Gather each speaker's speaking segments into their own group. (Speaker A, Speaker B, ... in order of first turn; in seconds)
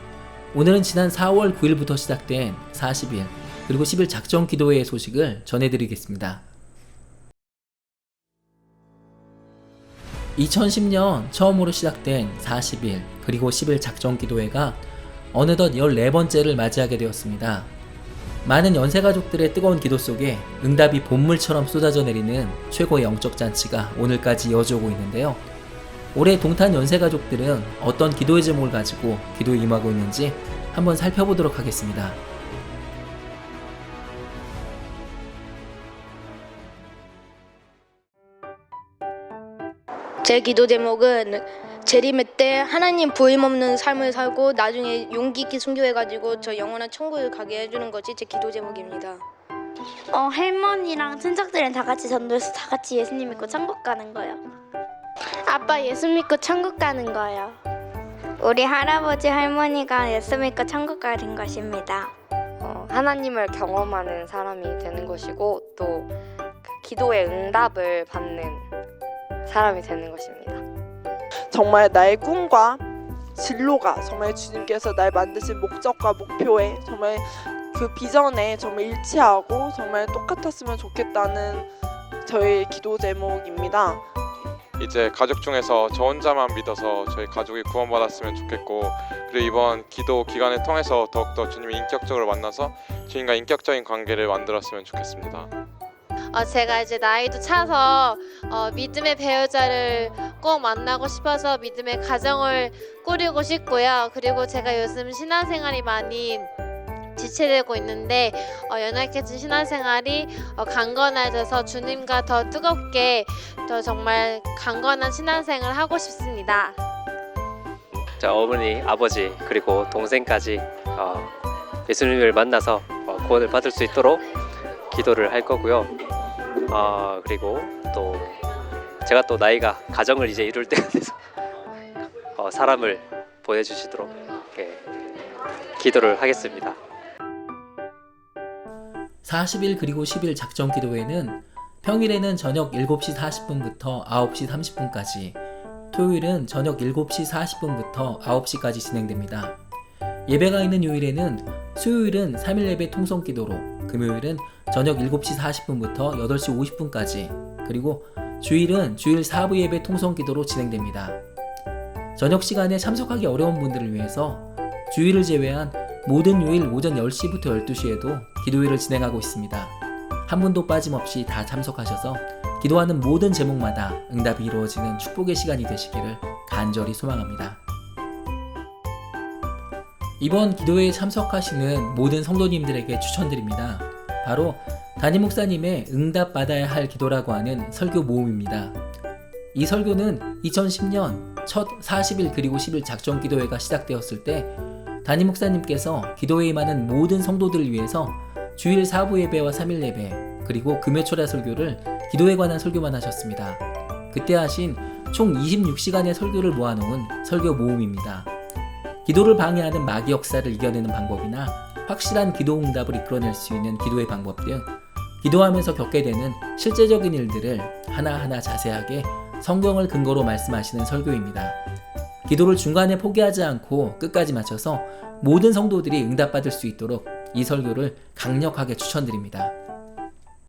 Speaker A: 0.5-6.5, 10.4-17.7, 18.4-25.4, 26.1-32.2, 139.2-145.4, 145.9-149.6, 150.3-161.2, 162.2-177.6, 180.2-188.8, 189.5-208.3, 209.1-221.6, 222.2-229.6
Speaker B: 40.2-49.2, 55.5-57.1
Speaker C: 50.1-54.4, 57.1-57.5, 58.4-62.1
Speaker D: 62.6-68.7, 69.5-70.6
Speaker E: 71.5-72.8, 73.4-81.7, 82.2-84.0
Speaker F: 84.8-95.5
Speaker G: 96.3-106.5, 107.2-116.8
Speaker H: 117.9-121.3, 121.9-124.2, 124.9-125.9, 126.7-128.4, 129.0-131.2, 132.3-134.8, 135.8-136.8